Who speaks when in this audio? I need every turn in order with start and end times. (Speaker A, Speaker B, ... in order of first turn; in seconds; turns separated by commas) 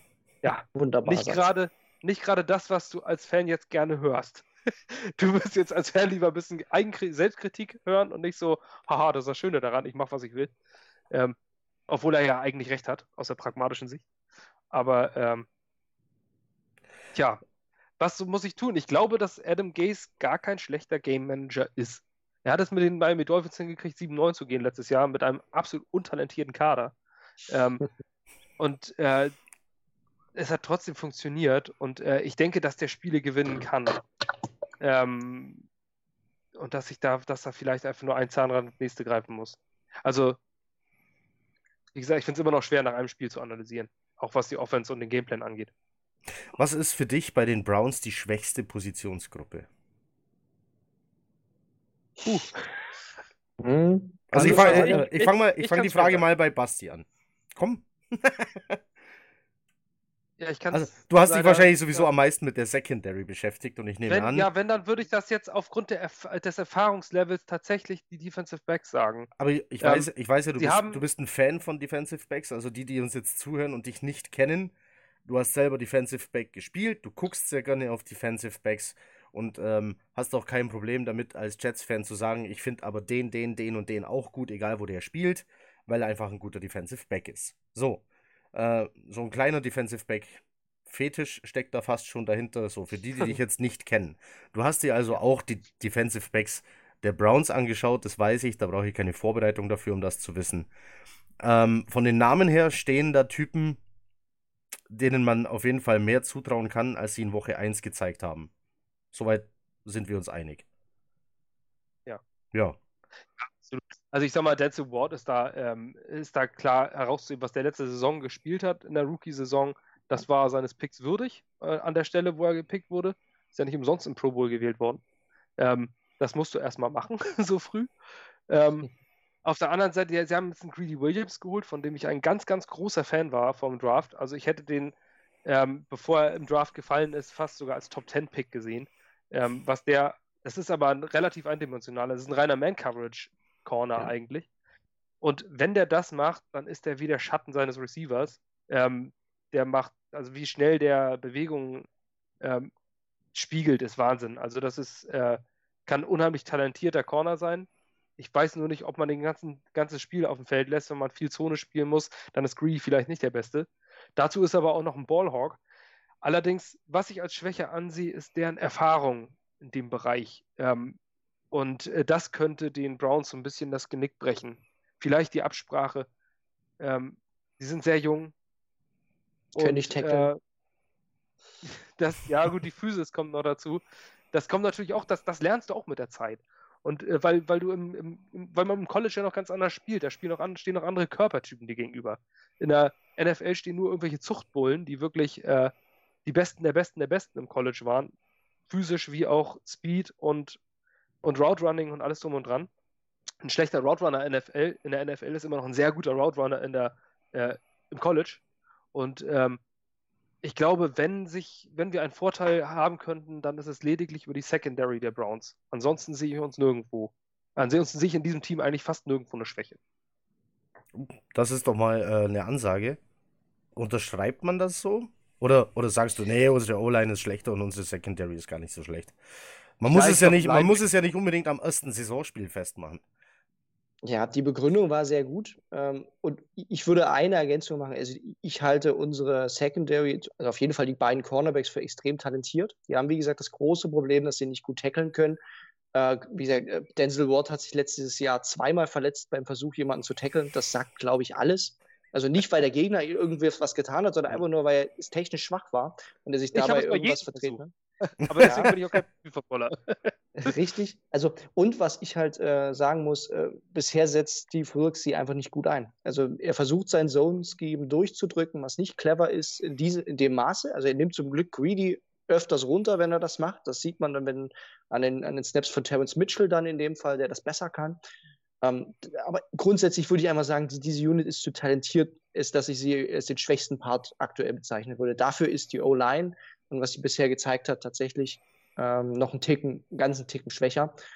Speaker A: 0.4-10.5, Speaker B: 0.7-1.4, Speaker A: 11.1-11.3, Speaker A: 11.9-14.0, Speaker A: 14.7-15.5, Speaker A: 17.1-17.4, Speaker A: 18.0-26.9, Speaker A: 27.5-27.9, Speaker A: 28.6-29.3, Speaker A: 30.3-34.0, Speaker A: 34.8-35.6, Speaker A: 36.5-40.4, Speaker A: 41.9-45.7, Speaker C: 46.5-49.7, Speaker A: 52.2-52.6, Speaker B: 53.6-55.1, Speaker C: 54.3-58.8, Speaker A: 54.3-56.2, Speaker A: 60.4-62.1, Speaker C: 60.7-64.5, Speaker A: 64.1-69.3, Speaker C: 69.4-74.7, Speaker A: 69.8-71.0, Speaker C: 75.3-88.0, Speaker C: 88.5-100.7, Speaker C: 101.4-103.8, Speaker C: 104.9-108.5, Speaker C: 109.1-110.6, Speaker C: 112.5-112.8, Speaker A: 113.4-125.0, Speaker A: 125.6-127.9, Speaker A: 128.5-128.9, Speaker A: 129.4-134.9, Speaker A: 135.4-144.5, Speaker A: 145.2-151.9, Speaker A: 152.4-152.7, Speaker A: 153.3-157.7, Speaker A: 158.2-165.6, Speaker A: 166.2-171.0, Speaker A: 171.5-176.1, Speaker A: 176.8-178.3, Speaker A: 179.6-180.4, Speaker B: 179.6-180.3, Speaker A: 181.6-183.8, Speaker A: 184.3-195.7, Speaker A: 196.2-198.1, Speaker A: 198.7-200.6, Speaker A: 201.2-202.7, Speaker A: 203.4-208.4, Speaker A: 208.9-209.6, Speaker A: 210.4-219.8, Speaker C: 220.9-223.0, Speaker C: 223.8-229.2, Speaker C: 229.8-233.0, Speaker A: 229.9-230.8, Speaker B: 234.1-245.4, Speaker B: 245.9-257.7, Speaker A: 256.5-257.6, Speaker A: 258.2-260.5, Speaker B: 258.4-258.7, Speaker B: 260.4-278.0, Speaker B: 278.6-290.9